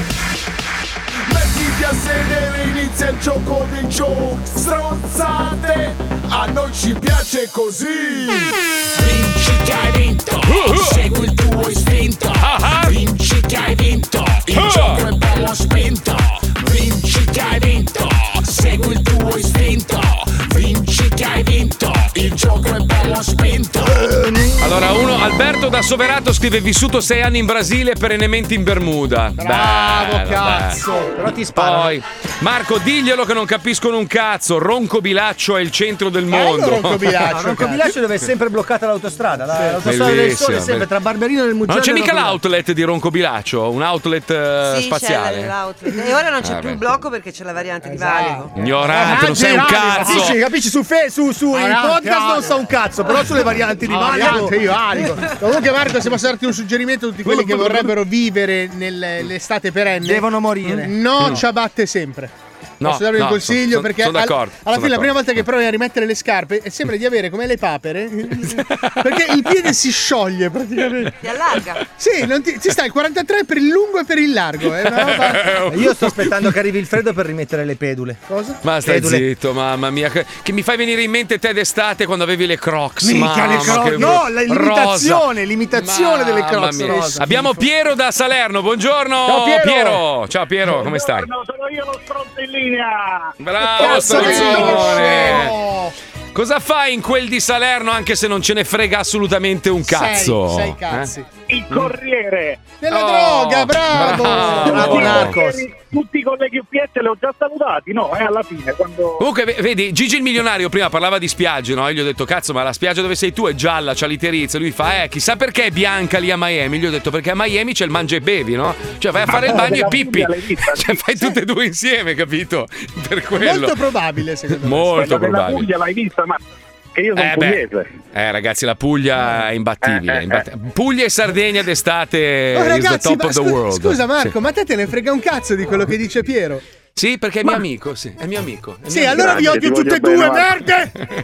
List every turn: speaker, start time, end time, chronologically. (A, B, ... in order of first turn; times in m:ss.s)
0:01.3-0:24.1 A
0:10.4-0:11.0 B
0:12.4-0:13.0 B
0:14.5-0:15.0 B
0:23.8-0:24.7 C
0:24.6-0:30.8 B
0:29.4-0:31.1 D
0:30.9-0:32.0 C
0:31.5-0:37.2 B
0:36.3-0:37.9 D
0:37.2-0:42.4 C
0:39.5-0:39.8 D
0:39.8-0:40.9 B
0:41.7-0:45.6 B
0:44.6-0:48.5 E
0:46.4-0:46.8 B
0:47.8-0:50.3 D
0:48.6-0:50.4 B
0:48.9-0:55.3 C
0:51.5-0:52.7 D
0:53.9-1:11.3 D
0:57.2-0:57.9 C
1:00.0-1:01.4 C
1:02.8-1:05.2 B
1:08.5-1:09.2 B
1:11.2-1:11.8 E
1:11.8-1:15.5 D
1:15.0-1:16.5 B
1:15.1-1:18.3 C
1:18.3-1:18.6 D
1:18.6-1:31.3 B
1:18.8-1:19.3 C
1:23.0-1:27.5 C
1:26.8-1:27.5 D
1:29.3-1:30.0 C
1:30.7-1:33.3 F
1:33.4-1:35.6 B
1:33.8-1:35.9 D
1:34.1-1:34.9 C
1:36.3-1:41.1 B
1:39.9-1:41.3 D
1:41.5-1:42.7 F
1:42.8-1:45.6 D
1:42.9-1:45.4 B
1:44.3-1:45.7 C
1:44.8-1:49.2 F
1:49.2-2:03.8 B
1:59.2-2:01.0 F
2:03.4-2:05.0 D
2:04.6-2:05.7 B
2:05.0-2:06.4 F
2:07.0-2:07.9 F
2:07.2-2:07.6 B
2:08.1-2:14.3 B
2:09.8-2:10.4 F
2:12.5-2:16.6 D
2:17.0-2:19.6 B
2:18.9-2:20.9 D
2:19.1-2:20.5 F